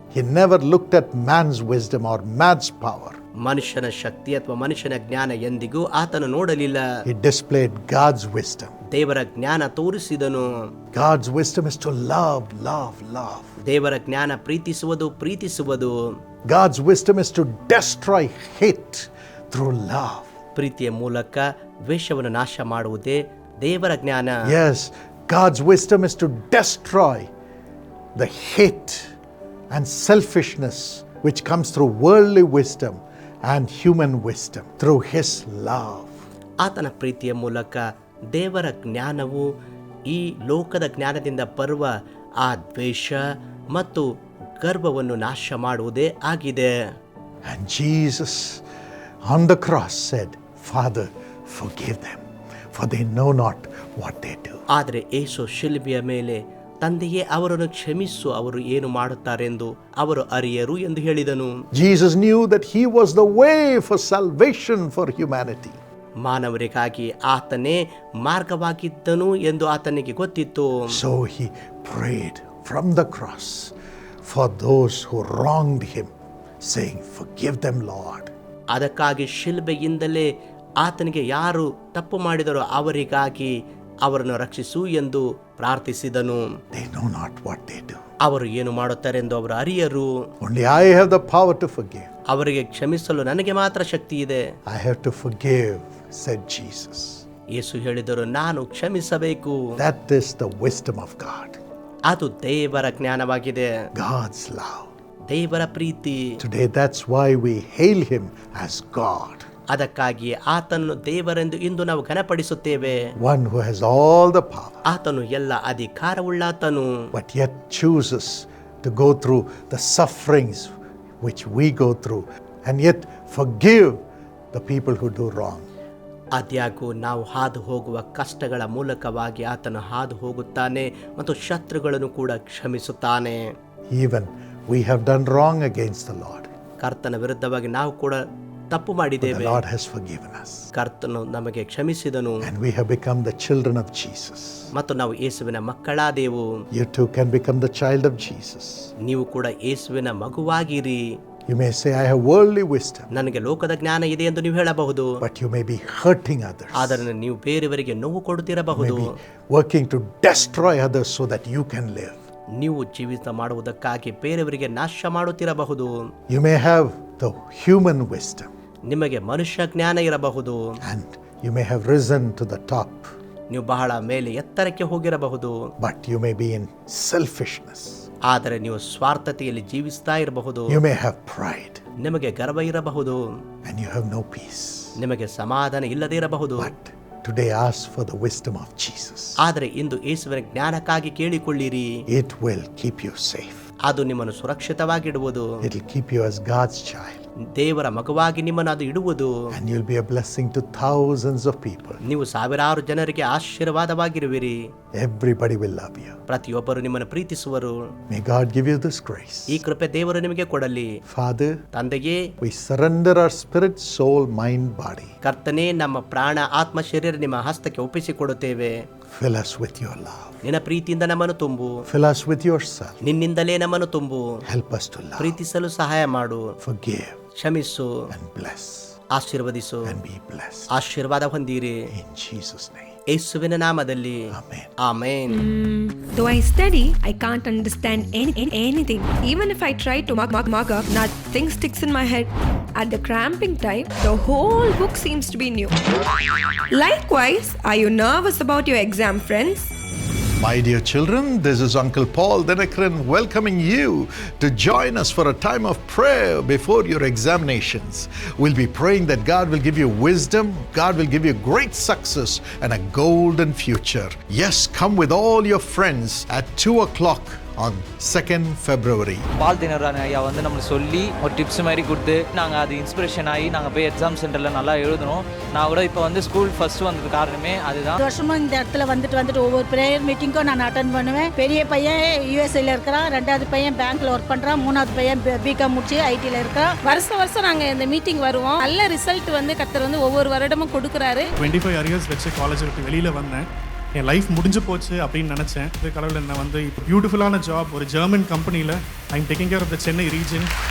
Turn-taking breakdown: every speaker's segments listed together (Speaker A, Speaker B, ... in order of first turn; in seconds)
Speaker A: 0.1-3.2, 7.0-8.7, 10.9-13.5, 16.5-20.3, 24.4-27.3, 28.1-29.1, 29.7-36.1, 47.5-48.6, 49.3-52.2, 52.7-54.6, 61.7-65.8, 70.9-73.7, 74.2-76.1, 76.6-78.3, 86.7-88.0, 90.4-92.1, 94.7-97.2, 99.8-101.6, 104.0-104.9, 106.4-109.5, 113.2-114.8, 117.1-124.0, 124.5-125.7, 133.9-136.5, 139.2-140.7, 142.4-144.7, 146.7-148.9, 151.5-153.1, 155.2-157.1, 158.7-162.2, 166.3-168.5, 170.8-173.1, 175.8-178.1, 180.7-181.8, 183.7-184.9, 186.6-189.4, 192.1-193.6, 195.6-197.2, 199.5-202.0, 204.9-206.2, 208.1-209.6, 211.1-211.6, 212.4-215.1, 219.1-220.4, 221.9-222.9, 224.5-225.4, 226.6-227.2, 228.1-228.9, 229.8-230.7, 231.9-232.9, 234.3-234.7, 250.4-269.3
Speaker B: 3.4-6.9, 8.9-10.5, 13.7-15.9, 20.6-24.4, 36.6-37.8, 38.3-39.5, 40.1-41.9, 42.4-43.2, 43.7-44.0, 44.6-46.7, 54.7-61.6, 66.2-70.8, 78.7-80.3, 80.8-83.5, 84.0-86.4, 88.2-90.1, 92.3-94.4, 97.5-99.6, 102.1-103.7, 105.3-106.4, 109.7-113.0, 114.9-117.1, 126.3-133.4, 136.8-138.2, 138.7-139.6, 140.7-142.4, 144.7-146.4, 149.0-151.0, 153.1-155.2, 156.8-159.1, 162.6-165.9, 168.9-170.6, 173.5-175.7, 178.3-180.8, 182.0-183.2, 185.0-186.7, 189.4-191.9, 193.9-195.5, 197.6-199.3, 202.0-204.6, 206.3-207.8, 209.5-210.9, 211.7-212.2, 215.2-218.7, 220.4-221.7, 223.0-224.2, 225.2-226.5, 227.4-227.9, 229.1-230.0, 230.7-231.8, 233.1-234.3, 234.8-235.4
Speaker C: 235.3-245.8, 246.7-249.7
Speaker D: 269.4-278.0
Speaker E: 278.0-286.8
Speaker F: 286.8-291.3
Speaker G: 291.4-300.5